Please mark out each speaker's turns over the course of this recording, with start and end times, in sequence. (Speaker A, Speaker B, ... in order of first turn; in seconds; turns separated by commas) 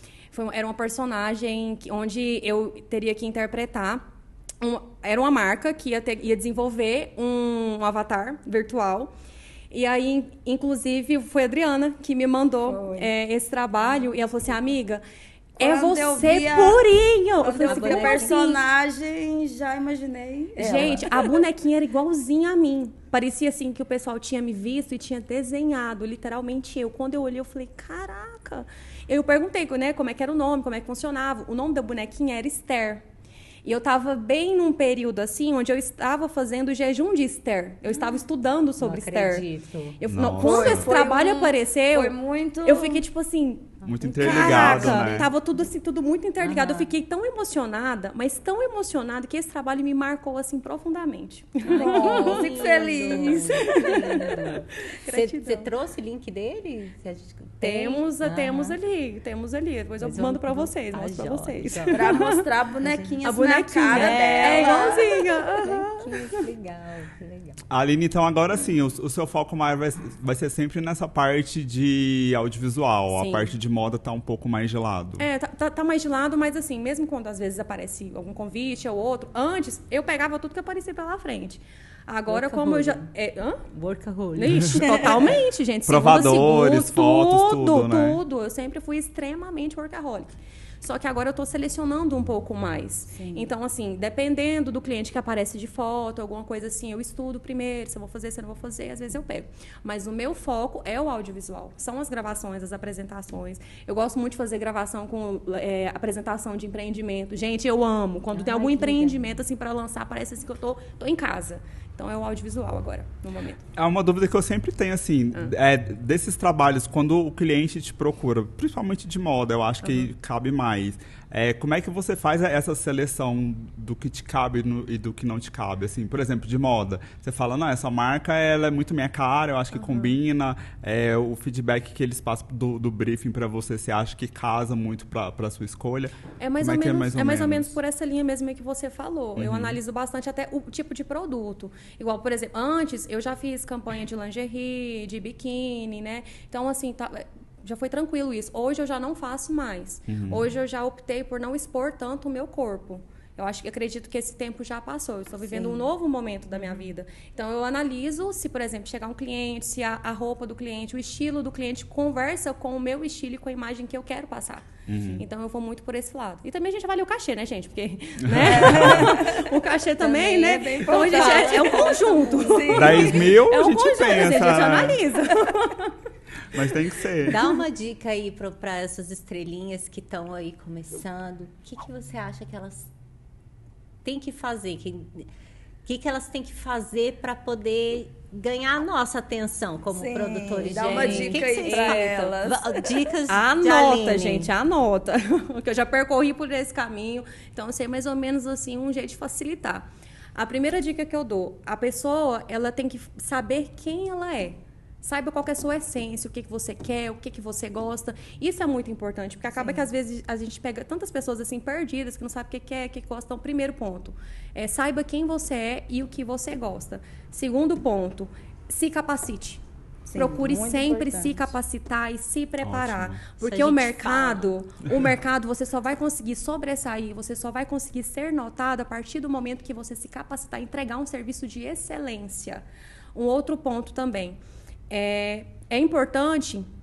Speaker A: 0.3-4.0, Speaker A: 4.6-9.1, Speaker A: 9.7-15.0, Speaker B: 12.7-13.1, Speaker A: 15.6-18.6, Speaker B: 15.6-16.8, Speaker B: 17.4-21.2, Speaker C: 17.6-18.5, Speaker A: 20.6-33.0, Speaker C: 20.7-21.0, Speaker A: 33.6-39.5, Speaker C: 38.8-40.0, Speaker A: 40.0-52.6, Speaker D: 40.1-40.9, Speaker B: 40.4-43.0, Speaker C: 43.8-45.3, Speaker D: 43.9-45.3, Speaker C: 46.4-46.9, Speaker B: 51.7-54.3, Speaker C: 51.7-58.8, Speaker A: 53.3-55.7, Speaker A: 57.6-62.5, Speaker C: 60.0-62.2, Speaker B: 61.9-65.0, Speaker C: 62.8-63.2, Speaker A: 63.2-66.3, Speaker C: 63.9-67.6, Speaker D: 67.7-75.3, Speaker A: 73.1-73.5, Speaker A: 75.2-83.6, Speaker C: 82.3-83.1, Speaker C: 83.7-85.4, Speaker A: 84.3-113.7, Speaker D: 85.9-88.2, Speaker B: 93.2-93.5, Speaker C: 108.3-109.4, Speaker D: 113.8-137.8, Speaker A: 119.8-120.1, Speaker A: 129.7-130.2, Speaker A: 136.4-175.9, Speaker D: 139.4-139.8, Speaker D: 150.1-150.5, Speaker D: 164.9-165.2, Speaker D: 168.2-169.1, Speaker B: 168.5-173.4, Speaker C: 170.9-171.9, Speaker D: 172.7-175.0, Speaker D: 176.5-177.4, Speaker C: 177.2-182.9, Speaker C: 184.0-185.3, Speaker C: 185.8-194.5, Speaker B: 189.9-193.0, Speaker A: 190.7-192.4, Speaker A: 193.3-219.6, Speaker B: 220.1-221.5, Speaker A: 220.1-232.6, Speaker D: 222.6-223.2, Speaker C: 223.4-224.6, Speaker A: 233.1-234.4, Speaker A: 234.9-236.7